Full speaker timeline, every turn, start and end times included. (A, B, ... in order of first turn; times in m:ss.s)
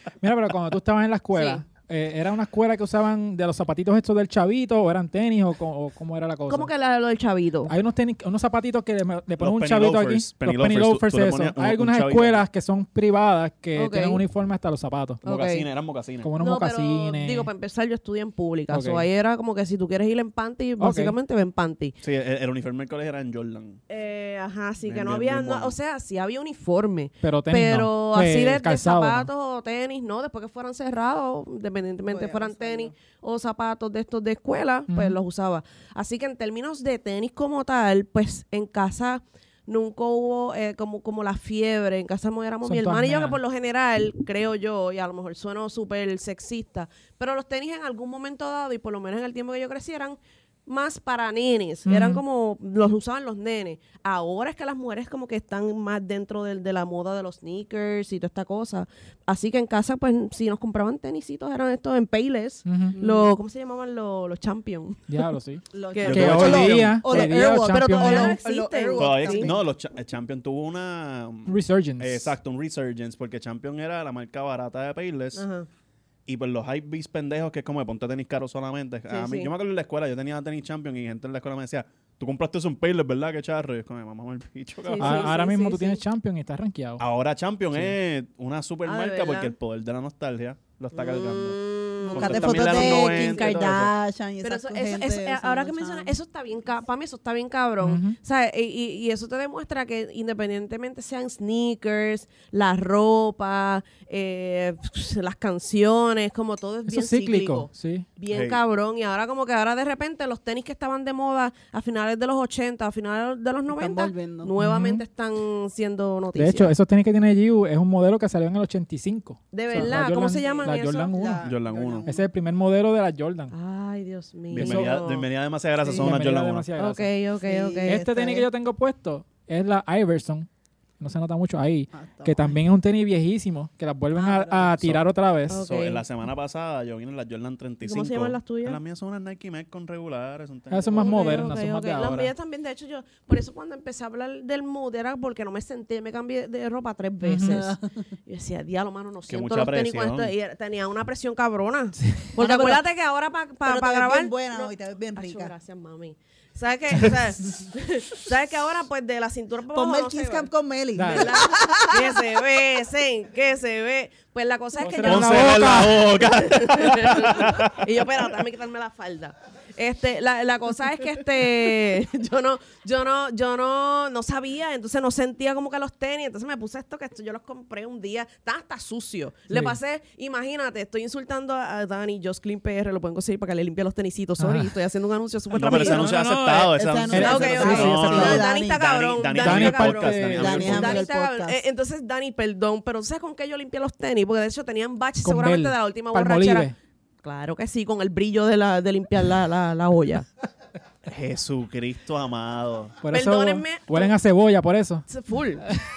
0:00.2-0:06.7 A
0:01.3-0:01.6 B
0:06.5-0:07.7 B
0:07.7-0:15.2 A
0:09.4-0:12.4 C
0:13.8-0:14.2 B
0:15.2-0:15.7 B
0:15.2-0:16.3 C
0:16.2-0:17.5 A
0:16.4-0:22.0 B
0:18.7-0:19.1 A
0:20.8-0:21.2 A
0:22.0-0:23.8 C
0:23.9-1:05.2 B
0:24.8-0:25.8 C
0:27.2-0:29.3 A
0:32.1-0:33.0 D
0:34.9-0:35.2 A
0:42.6-0:43.4 A
0:51.9-0:52.2 A
1:02.7-1:03.0 A
1:02.9-1:03.4 D
1:05.1-1:08.4 A
1:05.7-1:09.6 D
1:05.9-1:09.5 B
1:06.0-1:07.0 C
1:09.0-1:15.4 C
1:11.5-1:12.4 A
1:15.4-1:15.7 B
1:16.3-1:25.3 C
1:19.1-1:19.5 B
1:24.8-1:26.0 B
1:25.0-1:27.0 A
1:27.0-1:31.6 C
1:28.8-1:29.5 B
1:30.9-1:33.8 B
1:32.0-1:36.2 D
1:32.1-1:33.9 C
1:34.4-1:56.7 B
1:37.8-1:38.2 A
1:46.9-1:48.1 A
1:48.3-1:48.6 C
1:53.7-1:54.5 D
1:54.6-1:55.0 A
1:56.4-2:01.4 A
1:59.5-2:01.1 B
1:59.9-2:02.3 D
2:01.4-2:02.1 C
2:02.1-2:03.5 A
2:03.5-2:05.3 B
2:04.5-2:06.7 C
2:04.6-2:04.9 A
2:05.8-2:06.1 D
2:05.8-2:07.1 A
2:06.8-2:08.0 B
2:07.4-2:08.5 D
2:07.8-2:10.5 A
2:11.0-2:15.6 A
2:11.9-2:12.6 D
2:14.2-2:14.7 D
2:14.8-2:15.0 C
2:15.5-2:16.0 B
2:15.6-2:21.5 C
2:17.8-2:18.8 B
2:20.7-2:22.3 A
2:20.9-3:06.1 B
2:27.2-2:27.6 A
2:27.5-2:27.9 D
2:29.3-2:30.3 C
2:32.0-2:32.3 A
2:32.4-2:32.8 D
2:33.6-2:35.5 D
2:39.7-2:42.3 D
2:41.0-2:41.3 A
2:44.8-2:46.2 A
2:45.0-2:47.9 C
2:59.5-2:59.8 A
3:04.4-3:04.7 A
3:05.5-3:11.1 C
3:05.6-3:08.4 A
3:06.7-3:08.8 D
3:07.1-3:16.7 B
3:09.3-3:10.7 A
3:10.4-3:11.6 D
3:15.2-3:16.7 A
3:17.2-3:20.3 B
3:21.1-3:23.0 C
3:23.0-3:25.1 A
3:23.1-3:24.1 B
3:25.1-3:25.8 B